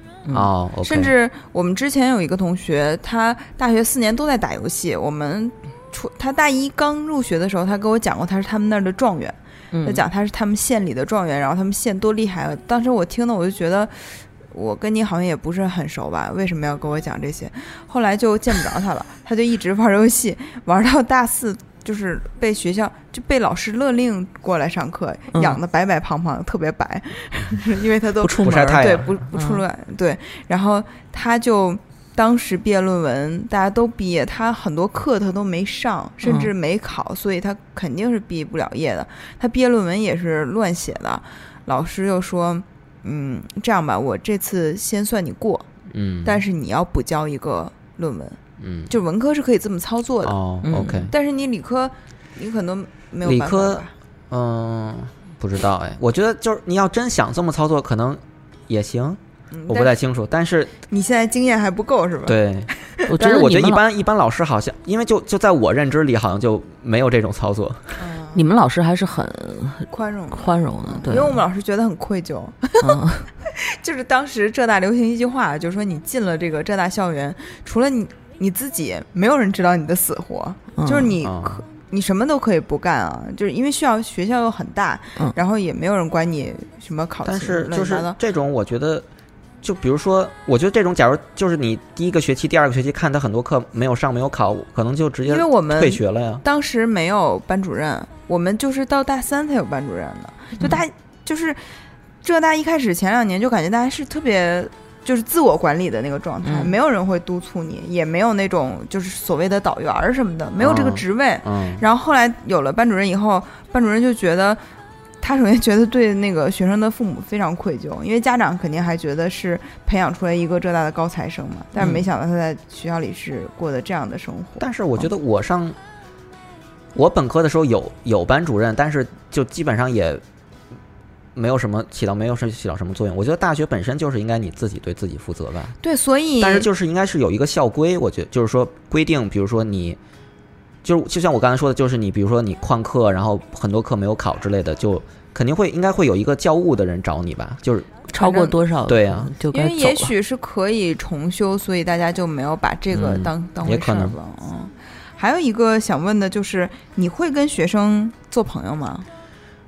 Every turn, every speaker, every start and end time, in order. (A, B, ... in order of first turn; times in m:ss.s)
0:00.3-0:01.1 A
0:00.8-0:45.7 B
0:09.7-0:10.0 C
0:25.3-0:25.6 C
0:28.2-0:29.6 C
0:28.4-0:29.2 A
0:36.2-0:36.5 C
0:45.9-0:46.4 A
0:46.2-0:48.4 B
0:48.6-0:48.9 A
0:48.9-0:50.4 B
0:50.2-0:51.1 A
0:50.6-0:51.1 C
0:51.1-0:53.9 B
0:53.2-1:00.7 A
0:59.5-1:00.0 B
1:00.9-1:03.0 B
1:02.3-1:08.0 A
1:03.1-1:03.8 C
1:08.0-1:08.4 B
1:08.3-1:11.4 C
1:09.9-1:28.2 B
1:12.8-1:13.3 C
1:20.8-1:21.1 C
1:21.2-1:21.6 A
1:27.2-1:29.1 A
1:29.6-1:36.4 A
1:35.3-1:41.6 B
1:42.2-1:54.6 B
1:46.4-1:46.7 C
1:50.6-1:51.8 A
1:55.2-2:04.7 B
2:04.6-2:05.8 A
2:07.0-2:10.2 A
2:11.4-2:15.8 A
2:15.8-2:16.7 B
2:16.4-2:20.0 A
2:20.8-2:28.1 A
2:28.1-2:30.1 C
2:28.2-2:28.6 B
2:28.9-2:29.3 A
2:29.5-2:39.1 B
2:32.9-2:34.2 A